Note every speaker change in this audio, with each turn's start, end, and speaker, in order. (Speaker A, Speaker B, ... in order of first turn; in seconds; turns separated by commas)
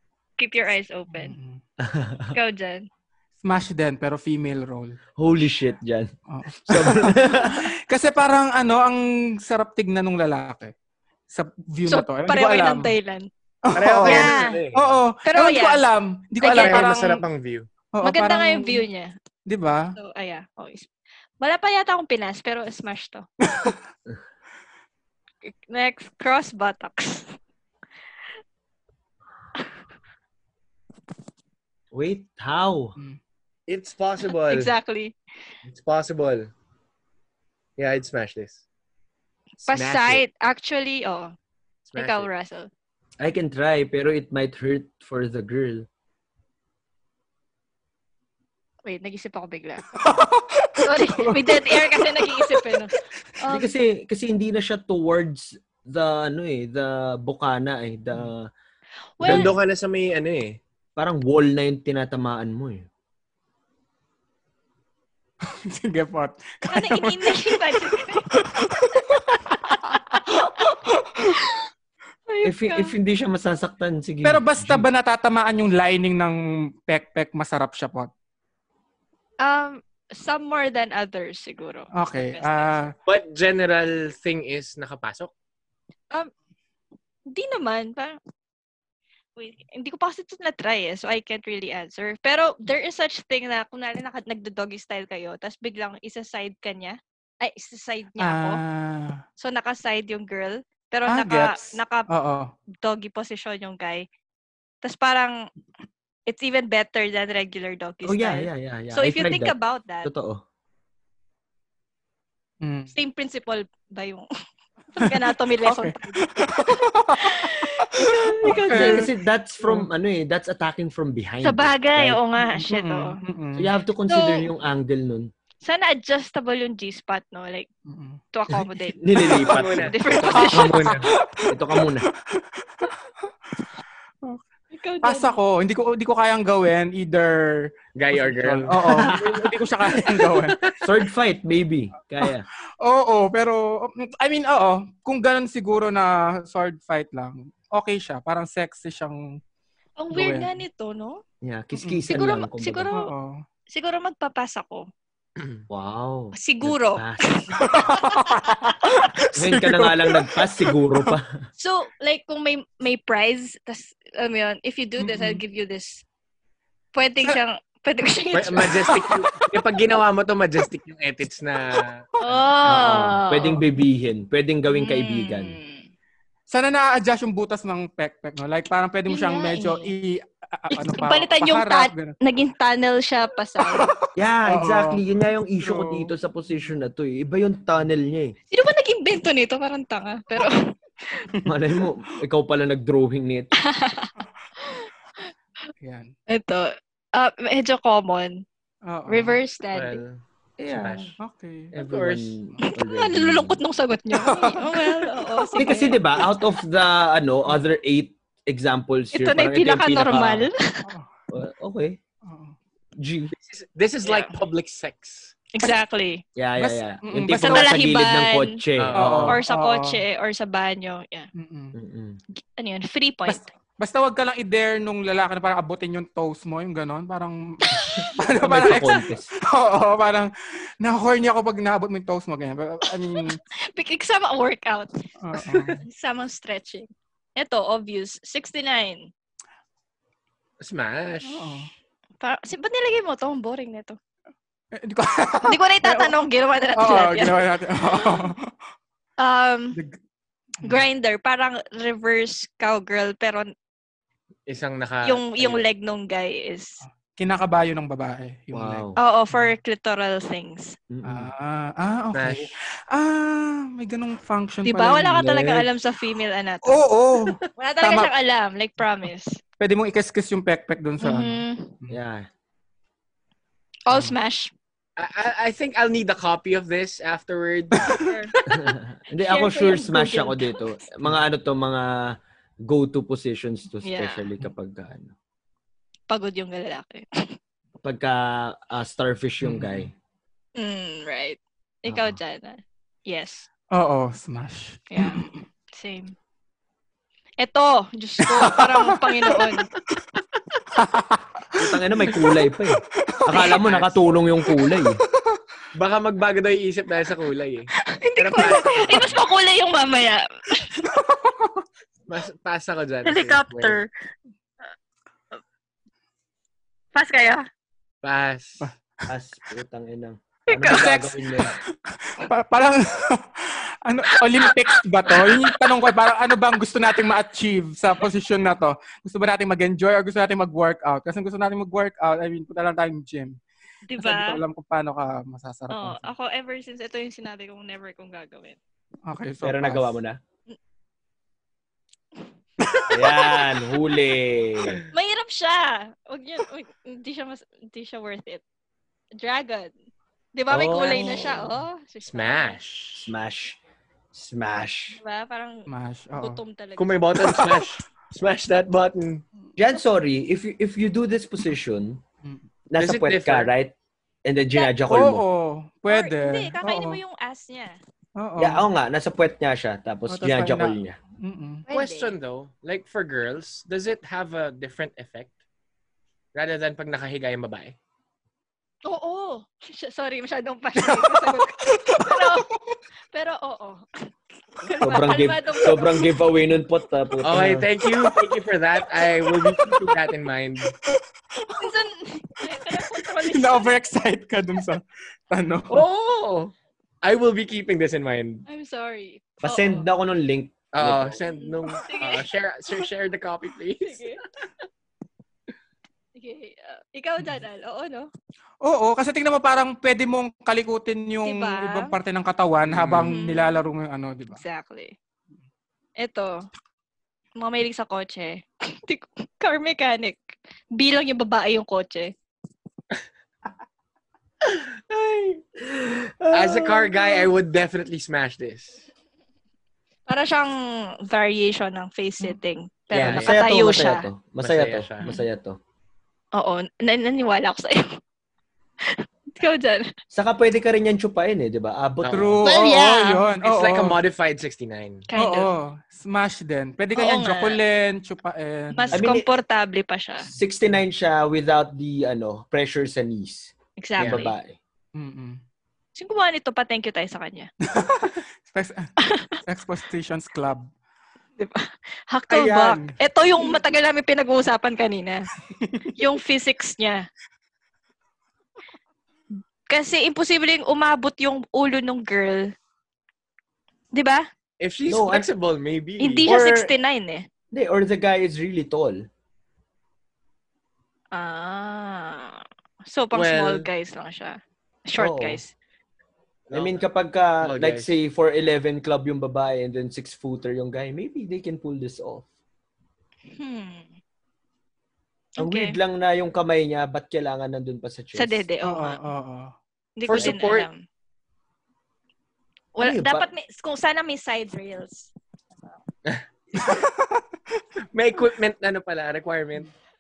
Speaker A: 0.4-1.4, Speaker B: 1.1-1.6, Speaker C: 1.8-2.4, Speaker A: 2.3-2.9, Speaker B: 3.4-5.0, Speaker C: 5.2-7.6, Speaker B: 6.3-10.7, Speaker B: 11.3-12.9, Speaker A: 11.9-13.3, Speaker B: 13.7-17.0, Speaker D: 13.7-15.0, Speaker A: 14.0-14.6, Speaker A: 15.2-15.8, Speaker A: 16.4-17.2, Speaker D: 16.4-17.7, Speaker B: 17.9-18.8, Speaker A: 18.0-19.1, Speaker B: 19.5-19.9, Speaker A: 20.0-20.9, Speaker A: 21.4-23.3, Speaker B: 23.5-23.8, Speaker A: 25.4-27.4, Speaker C: 31.9-33.0, Speaker D: 33.7-34.7, Speaker A: 34.3-35.1, Speaker D: 35.7-36.5, Speaker D: 37.8-38.6, Speaker A: 39.6-41.3, Speaker D: 39.7-40.2, Speaker D: 41.9-42.3, Speaker A: 41.9-42.7, Speaker C: 43.2-45.9, Speaker A: 48.9-50.0, Speaker B: 49.9-53.0, Speaker A: 50.8-53.7, Speaker C: 53.5-58.5, Speaker A: 59.2-59.6, Speaker C: 59.2-59.5, Speaker D: 59.2-60.6, Speaker C: 61.0-62.9, Speaker B: 65.5-71.3, Speaker A: 66.7-68.4, Speaker A: 70.1-71.6, Speaker A: 72.3-72.9, Speaker C: 72.4-74.9, Speaker B: 74.2-78.1, Speaker A: 79.4-82.9, Speaker B: 81.9-82.9, Speaker D: 83.1-85.3, Speaker A: 87.3-88.2, Speaker A: 89.4-98.6, Speaker B: 98.2-99.2, Speaker A: 99.4-102.1, Speaker B: 101.1-102.5, Speaker A: 102.8-104.1, Speaker A: 104.8-105.5, Speaker A: 106.3-110.1, Speaker C: 108.0-110.4, Speaker B: 112.6-112.9, Speaker A: 112.9-114.3, Speaker A: 114.9-119.1, Speaker B: 115.0-119.1, Speaker C: 118.4-122.2, Speaker A: 121.4-123.2, Speaker B: 122.4-123.7, Speaker C: 123.6-125.3, Speaker A: 124.1-124.5, Speaker A: 125.6-127.7, Speaker B: 127.9-128.2, Speaker A: 128.3-131.0, Speaker C: 129.0-130.0, Speaker D: 129.3-131.1, Speaker B: 130.3-132.9, Speaker C: 130.5-132.1, Speaker A: 134.7-135.4, Speaker B: 135.0-140.6, Speaker D: 137.9-139.4, Speaker C: 138.8-139.5, Speaker D: 140.1-140.8, Speaker C: 140.8-142.5, Speaker B: 142.8-149.4, Speaker A: 150.0-151.2, Speaker B: 150.1-150.6, Speaker C: 151.4-152.9, Speaker B: 151.8-152.1, Speaker A: 152.1-153.1, Speaker B: 152.9-153.4, Speaker A: 153.7-154.9, Speaker D: 155.4-155.6, Speaker C: 155.7-157.6, Speaker A: 156.3-158.5, Speaker B: 157.6-161.1, Speaker C: 159.3-161.4, Speaker A: 161.6-166.1, Speaker B: 165.0-165.4, Speaker A: 166.9-169.2, Speaker D: 168.3-172.4, Speaker B: 168.9-169.2, Speaker A: 172.2-173.6, Speaker C: 172.7-175.6, Speaker A: 174.7-175.9, Speaker B: 176.5-182.2, Speaker A: 179.1-179.9, Speaker A: 180.7-183.9, Speaker B: 183.7-185.0, Speaker C: 184.2-188.3, Speaker B: 185.6-186.1, Speaker A: 188.5-191.2, Speaker C: 191.5-193.5, Speaker A: 193.6-194.9, Speaker B: 195.8-196.1, Speaker A: 196.3-198.4, Speaker B: 198.9-199.4, Speaker A: 199.1-200.0, Speaker D: 199.7-200.2, Speaker C: 200.6-201.2, Speaker D: 200.7-201.2, Speaker B: 201.2-201.7, Speaker C: 201.7-203.6, Speaker D: 201.8-202.4, Speaker A: 202.6-206.2, Speaker B: 204.1-205.6, Speaker C: 205.6-210.5, Speaker A: 209.1-210.9, Speaker B: 210.8-211.1, Speaker C: 211.3-212.0, Speaker B: 212.2-212.6, Speaker C: 213.0-213.3, Speaker D: 213.3-215.3, Speaker A: 214.0-214.3, Speaker A: 215.5-216.2, Speaker C: 216.4-219.4, Speaker B: 216.6-217.8, Speaker A: 217.3-218.6, Speaker D: 218.8-219.3, Speaker B: 218.9-220.0, Speaker A: 219.2-221.3, Speaker B: 221.3-221.8, Speaker C: 221.7-222.2, Speaker A: 222.6-223.4, Speaker B: 223.3-230.3, Speaker C: 228.4-229.3, Speaker B: 230.8-233.4, Speaker A: 233.2-234.9, Speaker B: 235.2-235.8, Speaker A: 235.8-239.1, Speaker D: 240.6-241.7, Speaker B: 241.2-241.7, Speaker A: 242.2-244.0, Speaker B: 244.8-246.1, Speaker A: 245.5-248.3, Speaker B: 246.8-248.5, Speaker A: 249.2-249.8, Speaker A: 250.6-253.5, Speaker D: 254.5-255.6, Speaker A: 255.0-256.8, Speaker B: 256.8-259.6, Speaker C: 258.5-259.0, Speaker A: 259.0-260.8, Speaker C: 260.9-261.3, Speaker B: 261.0-265.7, Speaker D: 262.1-262.5, Speaker A: 264.6-266.8, Speaker B: 266.6-268.1, Speaker A: 267.6-269.4, Speaker B: 269.6-272.0, Speaker A: 271.0-271.7, Speaker C: 271.9-272.3, Speaker A: 273.9-274.5, Speaker D: 275.0-278.1, Speaker A: 277.9-278.3, Speaker C: 278.5-285.1, Speaker A: 279.2-280.6, Speaker A: 283.8-284.2, Speaker A: 286.1-287.4, Speaker C: 287.8-289.9, Speaker B: 289.4-289.9, Speaker A: 290.6-293.5, Speaker C: 291.9-292.2, Speaker B: 293.7-295.4, Speaker A: 294.9-296.1, Speaker A: 297.4-299.7, Speaker B: 298.2-299.6, Speaker B: 300.8-301.5, Speaker C: 301.6-305.0, Speaker B: 302.0-302.5, Speaker B: 303.1-303.8, Speaker A: 303.4-303.7, Speaker B: 304.4-304.8, Speaker D: 305.8-309.2, Speaker A: 307.9-310.7, Speaker B: 310.8-311.5, Speaker D: 312.1-313.8, Speaker A: 313.0-313.9, Speaker A: 316.9-317.5, Speaker D: 318.0-318.7, Speaker C: 319.1-321.6, Speaker A: 320.5-321.1, Speaker B: 320.7-321.5, Speaker B: 322.1-333.4, Speaker A: 325.1-325.5, Speaker A: 333.9-334.4, Speaker B: 334.0-336.1, Speaker A: 335.7-338.6, Speaker B: 339.1-340.0, Speaker C: 339.4-340.2, Speaker A: 342.8-343.5, Speaker C: 342.9-344.8, Speaker A: 344.9-348.4, Speaker A: 349.2-349.7, Speaker A: 350.4-352.6, Speaker C: 350.5-351.5, Speaker D: 352.0-353.1, Speaker C: 353.0-353.6, Speaker C: 354.1-355.0, Speaker A: 354.9-357.0, Speaker B: 355.7-356.4, Speaker D: 356.8-359.2, Speaker B: 357.2-357.7, Speaker C: 359.6-362.0, Speaker C: 362.7-363.7, Speaker D: 362.8-363.5, Speaker C: 364.2-365.2, Speaker B: 364.9-367.0, Speaker A: 365.9-367.8, Speaker B: 368.2-368.7, Speaker C: 368.4-371.0, Speaker B: 370.1-371.7, Speaker A: 371.7-372.1, Speaker D: 371.7-375.4, Speaker D: 376.3-377.8, Speaker A: 378.9-382.5, Speaker B: 380.8-382.6, Speaker A: 383.1-383.9, Speaker A: 384.6-386.2, Speaker C: 384.8-387.7, Speaker D: 387.2-390.7, Speaker B: 389.2-389.9, Speaker B: 390.9-391.6, Speaker A: 391.6-393.8, Speaker B: 392.6-395.9, Speaker D: 395.7-398.4, Speaker A: 398.5-399.9, Speaker C: 399.4-401.2, Speaker D: 400.7-404.2, Speaker A: 401.3-402.3, Speaker A: 403.8-404.2, Speaker A: 406.2-408.1, Speaker B: 408.6-414.4, Speaker A: 411.2-411.9, Speaker D: 412.7-413.1, Speaker A: 413.1-413.6, Speaker A: 414.3-414.9, Speaker A: 416.0-416.4, Speaker A: 417.4-420.2, Speaker A: 420.8-422.1, Speaker C: 424.4-427.3, Speaker D: 426.3-428.8, Speaker A: 430.1-434.1, Speaker C: 432.9-435.6, Speaker D: 432.9-433.4, Speaker D: 434.4-435.0, Speaker A: 436.4-438.0, Speaker A: 438.8-439.9, Speaker C: 440.1-442.4, Speaker D: 442.0-442.4, Speaker B: 442.1-444.0, Speaker A: 442.4-443.2, Speaker D: 443.4-445.1, Speaker A: 445.1-445.5, Speaker B: 445.2-449.1, Speaker A: 447.0-447.6, Speaker A: 448.7-450.3, Speaker C: 448.9-449.3, Speaker C: 450.2-454.6, Speaker A: 453.8-454.3, Speaker D: 454.0-454.3, Speaker B: 454.9-455.4, Speaker A: 456.0-457.5, Speaker B: 457.7-458.9, Speaker A: 459.0-459.4, Speaker B: 459.4-460.7, Speaker A: 461.4-465.3, Speaker B: 462.3-463.0, Speaker B: 465.5-465.9, Speaker A: 465.9-467.1, Speaker A: 469.7-472.5, Speaker A: 473.9-474.3, Speaker D: 474.6-476.4, Speaker C: 474.9-475.3, Speaker A: 476.0-477.3, Speaker C: 476.2-476.7, Speaker C: 477.5-479.0, Speaker A: 481.1-485.5, Speaker D: 483.1-483.7, Speaker C: 485.0-485.4, Speaker D: 486.5-486.8, Speaker C: 486.5-492.3, Speaker D: 487.4-487.9, Speaker A: 493.3-493.9, Speaker A: 495.4-495.8, Speaker C: 495.4-498.4, Speaker A: 498.1-499.0, Speaker B: 498.6-499.5, Speaker A: 500.0-500.8, Speaker D: 500.1-500.7, Speaker A: 502.8-505.8, Speaker C: 502.8-503.3, Speaker B: 506.6-507.2, Speaker D: 507.9-509.7